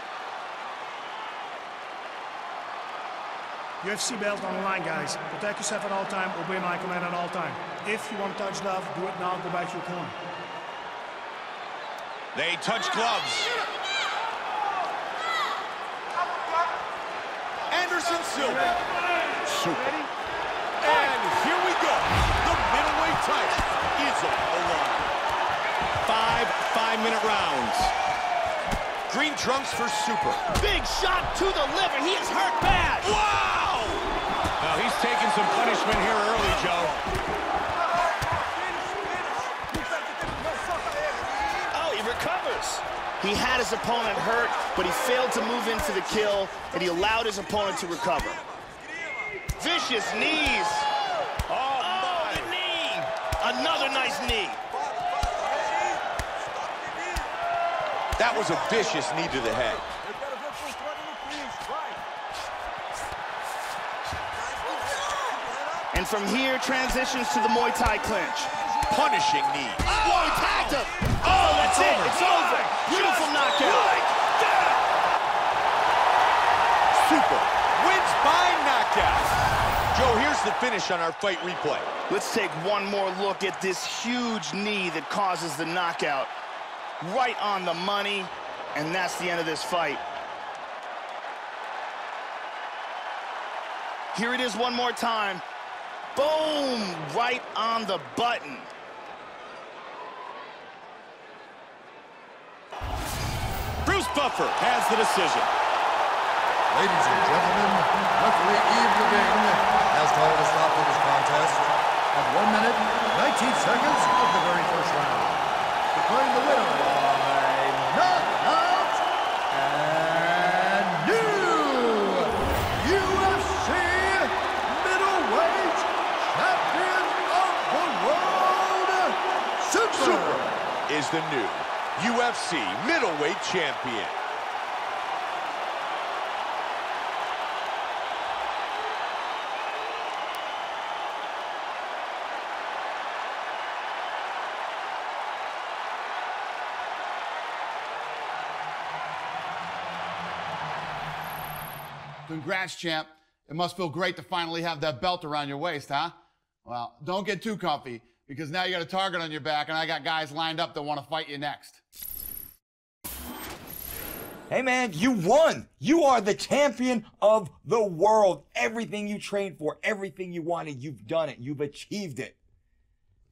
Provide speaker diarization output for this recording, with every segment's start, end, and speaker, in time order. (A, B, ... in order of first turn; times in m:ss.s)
0:03.8-0:10.2 A
0:12.3-0:13.5 B
0:17.7-0:18.8 B
0:19.4-0:20.1 B
0:20.8-0:25.1 B
0:26.0-0:27.9 B
0:29.1-0:30.4 B
0:30.6-0:33.2 C
0:33.0-0:34.0 B
0:34.6-0:37.0 B
0:41.7-0:48.4 C
0:49.6-0:50.8 C
0:51.5-0:54.6 C
0:51.8-0:52.5 B
0:58.2-0:59.8 B
1:00.2-1:01.7 D
1:05.9-1:08.5 C
1:08.9-1:10.0 B
1:09.8-1:14.0 C
1:11.2-1:14.8 B
1:16.9-1:19.3 B
1:19.9-1:21.9 B
1:22.1-1:26.3 C
1:27.0-1:30.0 C
1:34.1-1:35.4 C
1:36.1-1:38.7 C
1:43.8-1:45.5 B
1:46.7-2:10.5 D
2:09.9-2:14.2 B
2:32.3-2:36.1 E
2:36.6-2:41.8 E
2:44.5-2:52.4 F